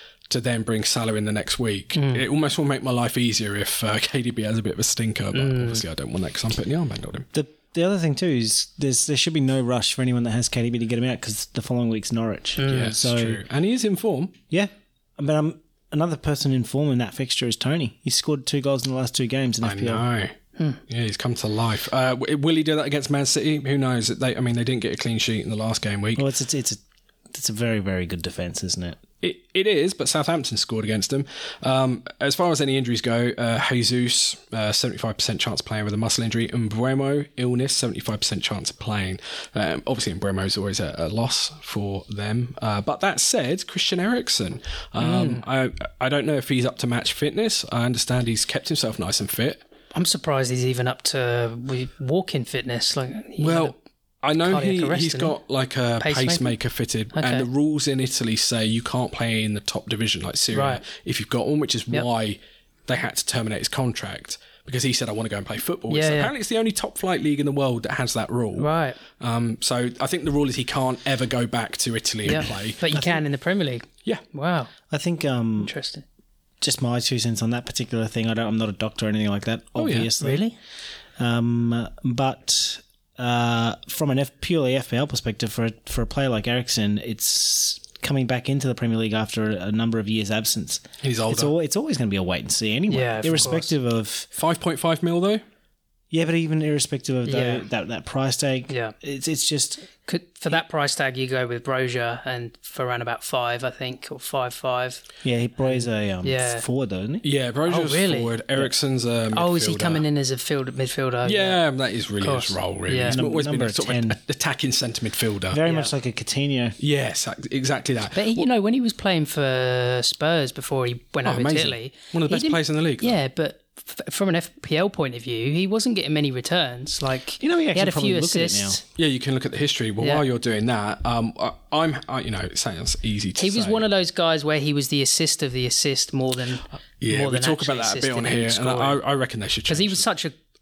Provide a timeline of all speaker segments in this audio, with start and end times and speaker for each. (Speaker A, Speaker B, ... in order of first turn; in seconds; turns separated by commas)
Speaker A: 0.3-7.3, Speaker B: 1.9-2.2, Speaker B: 5.3-5.8, Speaker C: 7.3-13.4, Speaker B: 12.6-12.9, Speaker A: 12.7-14.4, Speaker C: 14.5-20.1, Speaker A: 19.6-20.3, Speaker A: 20.9-26.2, Speaker C: 26.1-29.0, Speaker A: 29.2-49.6, Speaker B: 45.0-45.4, Speaker B: 49.9-53.7, Speaker A: 53.4-72.8, Speaker B: 54.4-55.3, Speaker B: 56.0-56.5, Speaker B: 57.1-57.5, Speaker B: 60.5-60.8, Speaker B: 65.9-66.3, Speaker B: 68.6-69.0, Speaker B: 72.2-74.7, Speaker C: 74.9-75.7, Speaker B: 75.6-76.0, Speaker C: 76.6-80.5, Speaker A: 79.8-80.1, Speaker B: 80.2-80.5, Speaker C: 81.2-94.3, Speaker A: 91.0-91.5, Speaker B: 92.9-93.7, Speaker A: 94.3-95.4, Speaker C: 96.1-99.9, Speaker B: 97.2-97.6, Speaker B: 98.7-98.9, Speaker B: 100.0-105.0, Speaker C: 105.2-107.2, Speaker B: 105.6-106.6, Speaker A: 107.2-110.0, Speaker B: 107.7-108.3, Speaker B: 109.3-111.6, Speaker A: 111.2-115.6, Speaker B: 112.2-113.2, Speaker C: 113.1-114.2, Speaker C: 115.5-116.8, Speaker B: 115.6-115.9, Speaker A: 116.8-118.5, Speaker B: 118.1-128.8, Speaker A: 121.2-123.2, Speaker C: 127.4-128.8, Speaker A: 128.9-133.9, Speaker B: 133.4-139.0, Speaker A: 137.0-140.0, Speaker B: 139.7-140.3